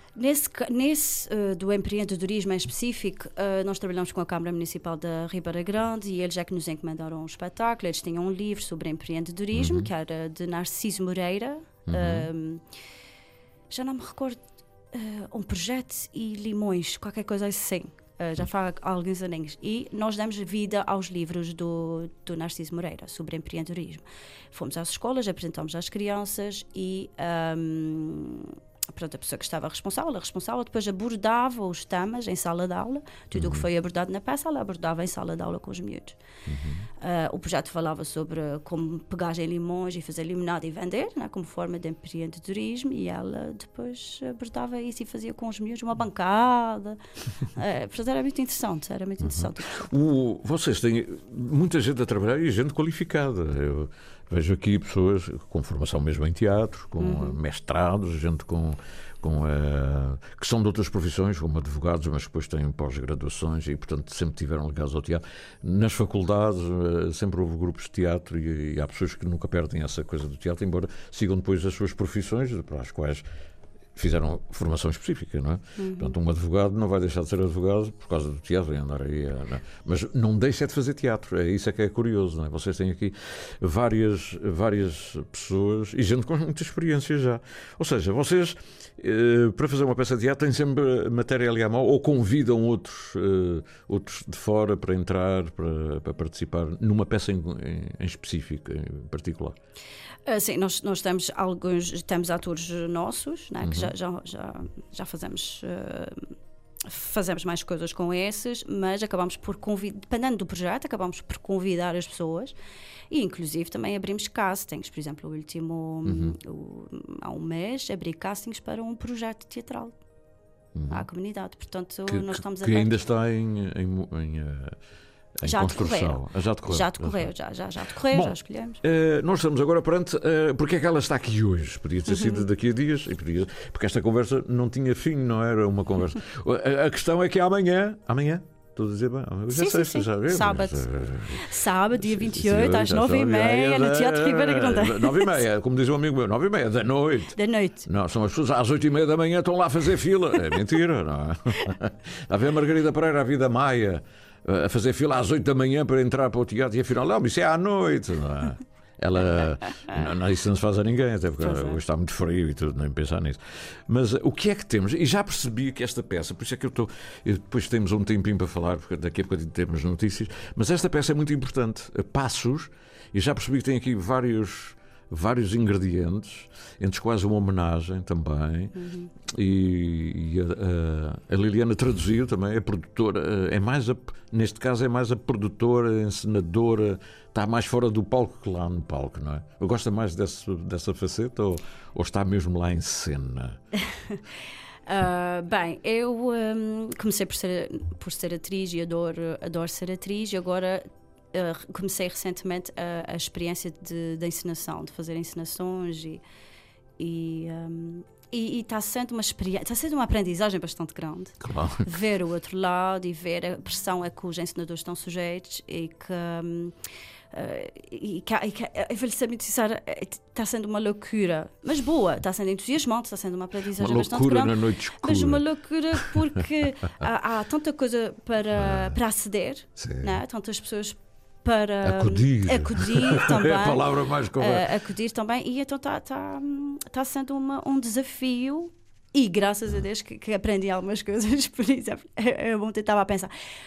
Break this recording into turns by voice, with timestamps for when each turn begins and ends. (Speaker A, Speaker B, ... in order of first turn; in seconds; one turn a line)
Speaker A: 0.2-12.6
Speaker B: 9.5-9.9
Speaker B: 11.9-12.3
Speaker A: 13.7-36.2
Speaker B: 33.3-33.7
Speaker B: 36.5-36.9
Speaker A: 37.0-47.0
Speaker A: 47.5-49.9
Speaker B: 49.2-73.2
Speaker A: 57.0-57.4
Speaker B: 74.0-99.6
Speaker A: 75.8-76.2
Speaker A: 100.3-106.3
Speaker B: 103.6-103.9
Speaker A: 106.8-112.5
Speaker A: 113.1-120.0
Speaker B: 116.0-116.4
Speaker B: 120.8-121.1
Speaker A: 120.9-123.0
Speaker B: 122.1-124.8
Speaker B: 125.4-127.3
Speaker A: 125.4-128.8
Speaker B: 128.1-178.8
Speaker A: 132.1-132.4
Speaker A: 139.5-145.5
Speaker A: 147.4-147.9
Speaker A: 161.4-161.8
Speaker A: 178.8-179.1
Speaker B: 179.3-193.6
Speaker A: 193.9-194.2
Speaker A: 194.9-206.2
Speaker A: 207.0-216.8
Speaker B: 211.4-211.9
Speaker A: 217.3-243.3
Speaker B: 223.8-226.2
Speaker B: 228.6-229.0
Speaker B: 229.8-230.2
Speaker B: 231.8-234.7